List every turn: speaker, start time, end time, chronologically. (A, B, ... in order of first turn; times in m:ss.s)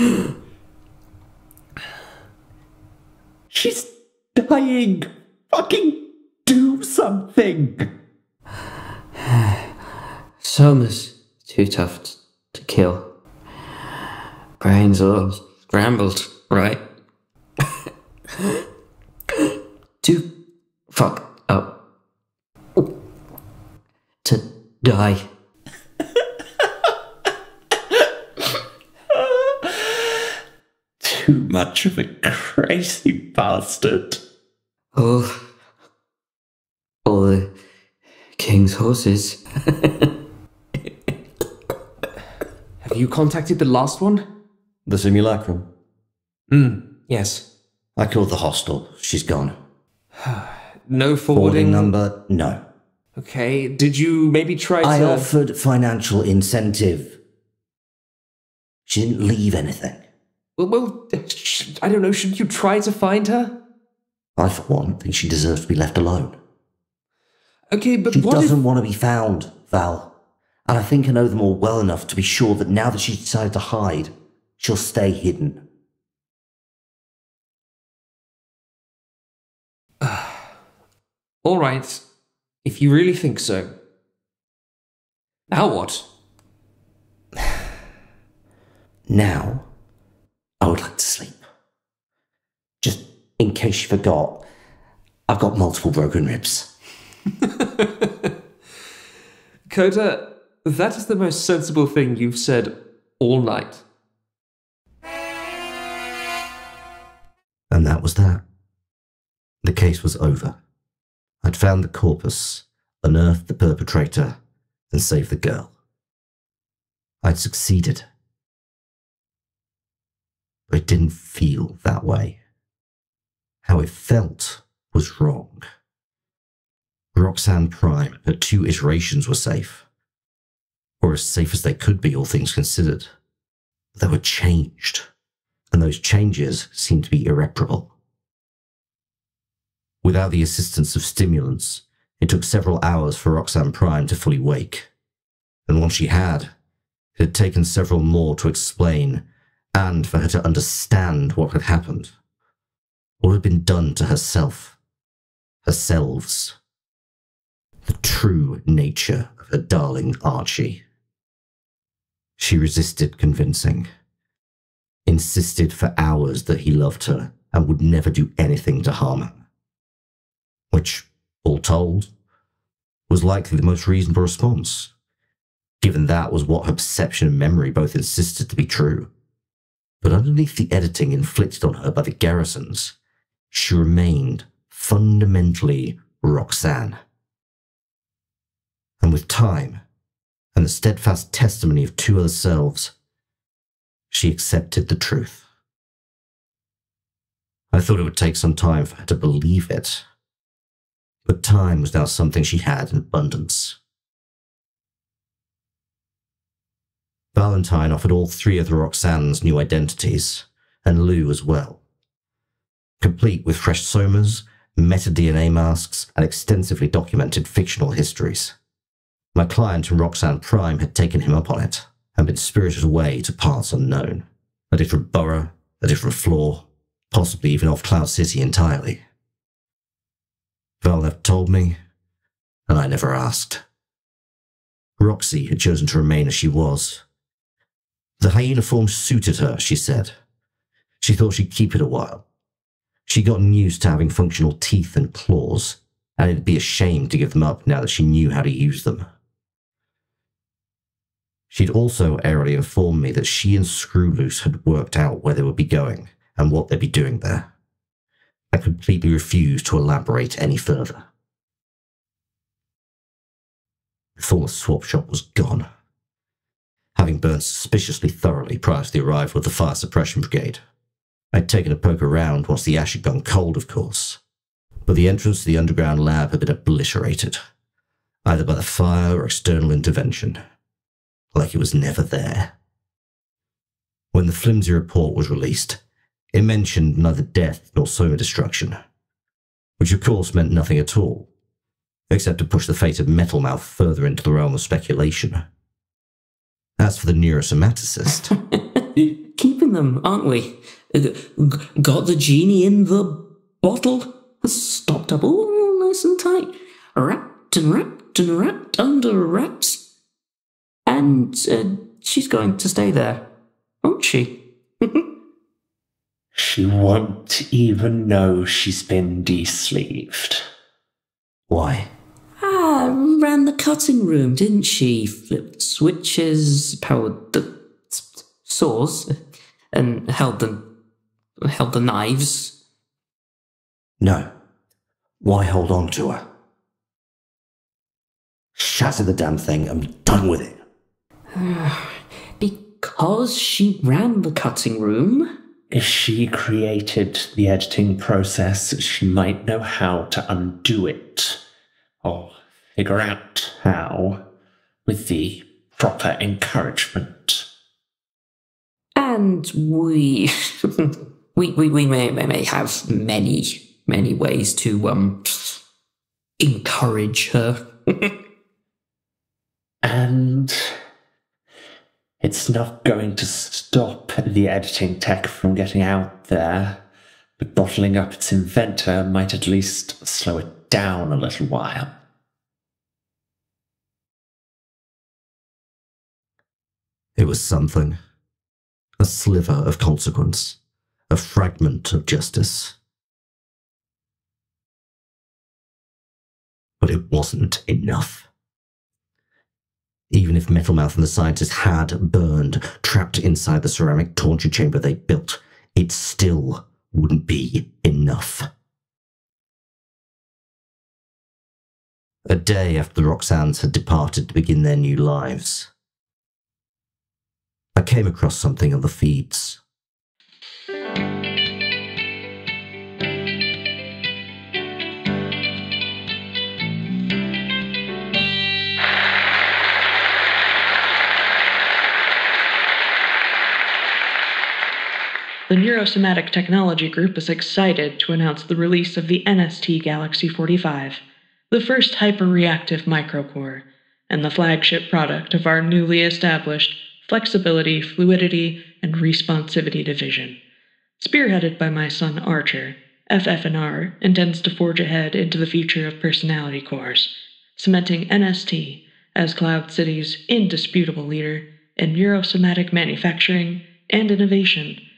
0:03.5-0:07.9 A
0:10.4-0:13.1 B
0:14.6-0:16.8 B
0:20.9-0:21.7 B
0:24.2-0:25.2 B
0:29.1-0:30.1 A
0:31.0-0:34.2 A
0:34.9-0:35.4 B
0:37.0-0:37.5 B
0:38.4-0:40.0 B
0:42.8-0:44.3 C
0:44.9-0:45.7 D
0:46.5-0:47.4 C
0:48.0-0:49.6 D
0:50.2-0:51.9 C
0:51.3-0:52.6 D
0:53.2-0:55.3 C
0:54.8-0:57.2 D
0:58.9-1:00.0 D
1:00.6-1:03.6 C
1:04.4-1:06.4 D
1:07.7-1:08.6 C
1:08.1-1:10.1 D
1:10.7-1:15.6 D
1:20.0-1:20.5 C
1:21.4-1:22.0 C
1:22.6-1:23.8 C
1:25.5-1:26.1 C
1:29.1-1:29.7 D
1:30.6-1:31.4 D
1:32.8-1:34.4 D
1:35.3-1:36.7 D
1:37.4-1:38.3 C
1:39.7-1:43.8 C
1:47.7-1:48.4 D
1:49.6-1:50.6 D
1:51.4-1:54.4 D
1:54.9-1:55.7 D
1:57.2-1:58.0 D
2:00.7-2:02.4 D
2:03.6-2:05.6 D
2:07.2-2:09.9 D
2:11.0-2:13.1 D
2:14.0-2:15.1 D
2:15.7-2:17.9 D
2:20.0-2:24.9 D
2:25.7-2:26.5 D
2:27.2-2:29.2 D
2:29.8-2:32.1 D
2:33.2-2:34.8 D
2:35.7-2:36.6 D
2:37.8-2:40.8 D
2:42.4-2:43.9 D
2:45.1-2:49.4 D
2:50.7-2:52.1 D
2:53.1-2:54.9 D
2:55.8-2:59.1 D
3:00.0-3:03.0 D
3:03.5-3:07.0 D
3:09.0-3:09.8 D
3:10.6-3:12.9 D
3:14.1-3:15.5 D
3:17.7-3:20.0 D
3:21.3-3:23.8 D
3:27.3-3:31.8 D
3:33.0-3:38.5 D
3:39.4-3:49.0 D
3:50.8-3:51.8 D
3:52.7-3:53.6 D
3:55.0-3:57.0 D
3:58.2-4:00.1 D
4:01.0-4:02.2 D
4:03.1-4:09.1 D
4:11.5-4:17.5 D
4:18.5-4:21.1 D
4:24.2-4:25.7 D
4:27.0-4:30.6 D
4:31.3-4:34.2 D
4:34.9-4:37.4 D
4:38.2-4:40.4 D
4:41.3-4:42.5 D
4:44.1-4:45.8 D
4:46.3-4:48.8 D
4:49.8-4:51.3 D
4:52.1-4:55.4 D
4:56.8-4:58.3 D
4:59.0-5:09.8 B
5:10.9-5:13.2 B
5:13.8-5:15.0 B
5:16.3-5:20.5 A
5:21.5-5:21.9 D
5:22.4-5:29.1 B
5:29.7-5:30.6 B
5:31.4-5:32.6 B
5:34.0-5:34.3 D
5:35.2-5:36.2 D
5:38.6-5:40.6 D
5:41.4-5:45.3 B
5:45.7-5:51.4 A
5:52.0-5:54.2 A
5:54.9-5:57.5 A
5:59.0-6:00.3 B
6:01.4-6:05.6 B
6:06.4-6:08.1 B
6:09.8-6:10.8 A
6:12.2-6:16.8 A
6:17.4-6:21.9 A
6:27.2-6:28.0 D
6:29.0-6:30.6 D
6:31.1-6:32.8 D
6:36.8-6:38.3 D
6:40.1-6:48.5 D
6:52.3-6:55.7 D
6:57.8-6:59.6 D
7:15.5-7:30.4 E
7:31.0-7:44.8 E